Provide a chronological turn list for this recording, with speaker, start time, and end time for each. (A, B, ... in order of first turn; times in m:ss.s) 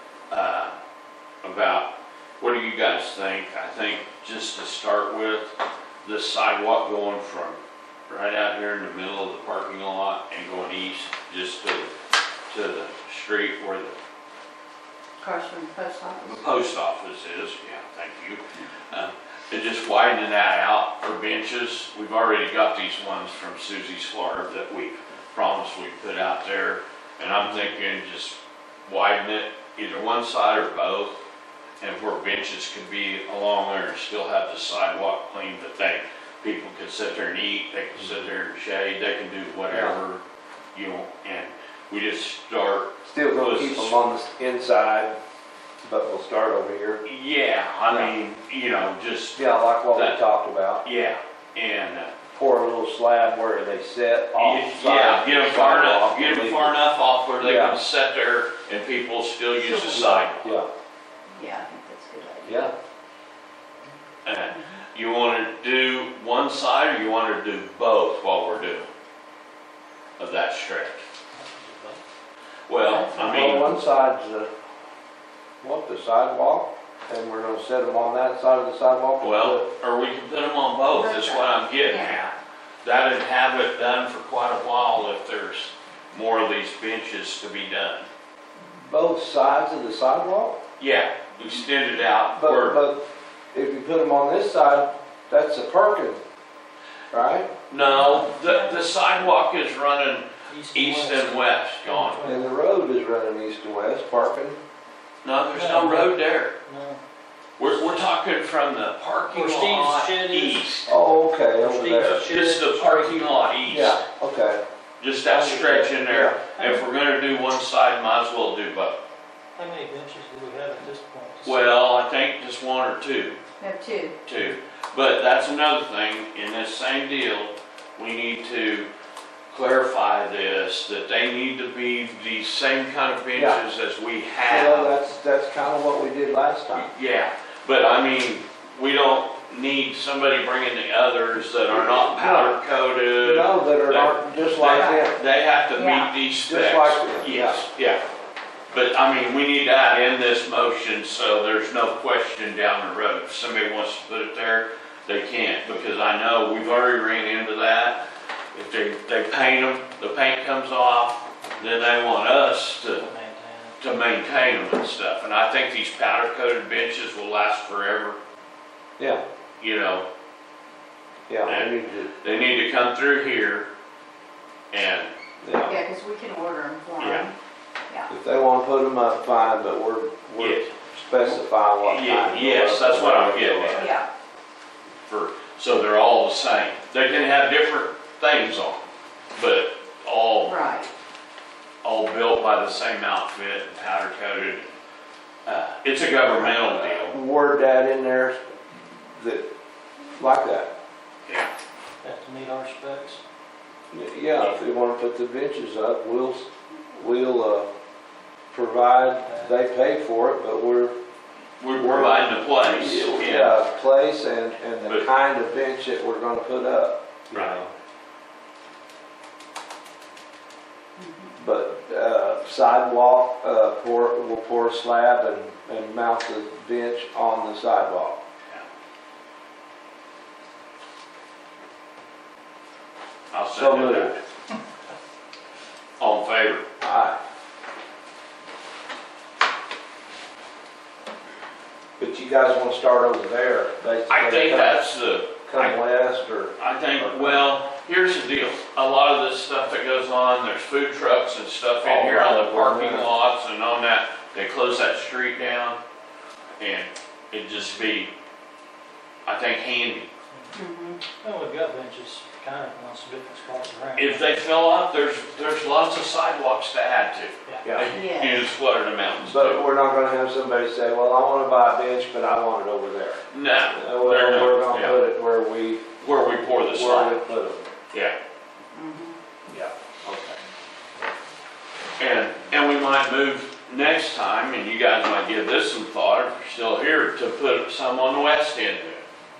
0:00.3-0:00.8 A
0:01.4-0:11.9 A
0:12.5-0:14.0 A
0:15.2-0:16.4 B
0:16.2-0:31.2 A
0:31.8-0:40.2 A
0:39.7-0:40.0 C
0:40.7-0:44.0 A
0:43.0-0:45.2 C
0:45.8-0:47.0 C
0:47.0-0:50.2 A
0:47.9-0:48.1 C
0:49.4-0:50.8 C
0:50.8-0:52.1 A
0:52.3-0:56.8 C
0:54.4-1:00.6 A
0:57.4-0:57.8 C
0:59.6-0:59.9 B
0:59.9-1:00.7 C
1:01.3-1:02.7 B
1:02.5-1:02.7 C
1:04.2-1:08.9 A
1:04.5-1:04.8 B
1:10.2-1:11.0 A
1:11.3-1:12.0 D
1:12.7-1:13.7 A
1:12.8-1:13.4 B
1:13.2-1:14.5 C
1:15.6-1:19.7 C
1:19.2-1:28.1 A
1:20.9-1:22.1 B
1:28.8-1:30.6 C
1:30.8-1:32.8 A
1:32.3-1:33.0 C
1:33.5-1:36.2 C
1:37.1-1:37.5 C
1:37.7-1:42.2 A
1:38.0-1:38.5 D
1:38.5-1:38.8 B
1:40.5-1:42.5 D
1:42.2-1:44.6 C
1:45.2-1:46.5 A
1:45.5-1:47.0 D
1:47.6-1:50.9 A
1:47.7-1:48.1 D
1:49.3-1:50.9 D
1:50.9-1:52.3 C
1:51.6-1:53.5 D
1:52.2-1:54.0 A
1:53.6-1:54.6 C
1:55.0-1:59.0 A
1:55.3-1:56.4 C
1:56.6-1:56.8 D
1:59.6-2:02.0 D
2:01.4-2:03.4 A
2:03.6-2:04.2 B
2:04.2-2:08.9 A
2:09.5-2:14.9 A
2:13.4-2:13.6 C
2:14.4-2:16.9 C
2:16.7-2:28.0 A
2:21.7-2:22.6 C
2:23.2-2:25.2 C
2:25.8-2:26.1 B
2:26.4-2:27.6 C
2:28.7-2:43.1 A
2:43.0-2:43.8 D
2:43.8-2:48.2 A
2:49.6-2:50.1 A
2:51.3-2:52.1 C
2:51.5-2:53.7 A
2:54.7-2:55.1 A
2:55.4-2:55.8 C
2:55.6-2:57.4 B
2:57.0-2:57.3 A
2:58.1-3:03.9 C
3:00.4-3:03.9 A
3:03.7-3:04.1 B
3:05.1-3:10.9 A
3:10.4-3:10.9 B
3:11.8-3:14.7 A
3:15.5-3:17.2 A
3:16.4-3:19.5 C
3:20.2-3:20.7 C
3:22.0-3:23.2 D
3:23.9-3:27.7 C
3:28.5-3:30.9 C
3:31.6-3:33.6 A
3:31.7-3:37.7 C
3:37.3-3:37.6 A
3:41.0-3:41.4 B
3:41.4-3:48.2 C
3:53.3-3:54.2 A
3:53.6-3:54.2 C
3:56.0-3:56.6 A
3:56.8-3:57.2 C
4:02.0-4:04.8 C
4:04.1-4:05.8 A
4:05.4-4:07.4 C
4:06.6-4:15.8 A
4:11.8-4:13.1 C
4:16.6-4:18.1 A
4:19.3-4:20.1 A
4:20.5-4:21.0 B
4:21.1-4:24.4 D
4:24.0-4:29.6 A
4:27.6-4:27.9 C
4:27.9-4:28.4 B
4:29.3-4:35.8 C
4:33.3-4:35.0 A
4:36.0-4:37.2 A
4:36.6-4:37.6 C
4:37.9-4:38.2 A
4:38.7-4:39.2 B
4:39.5-4:40.4 C
4:42.0-4:49.0 A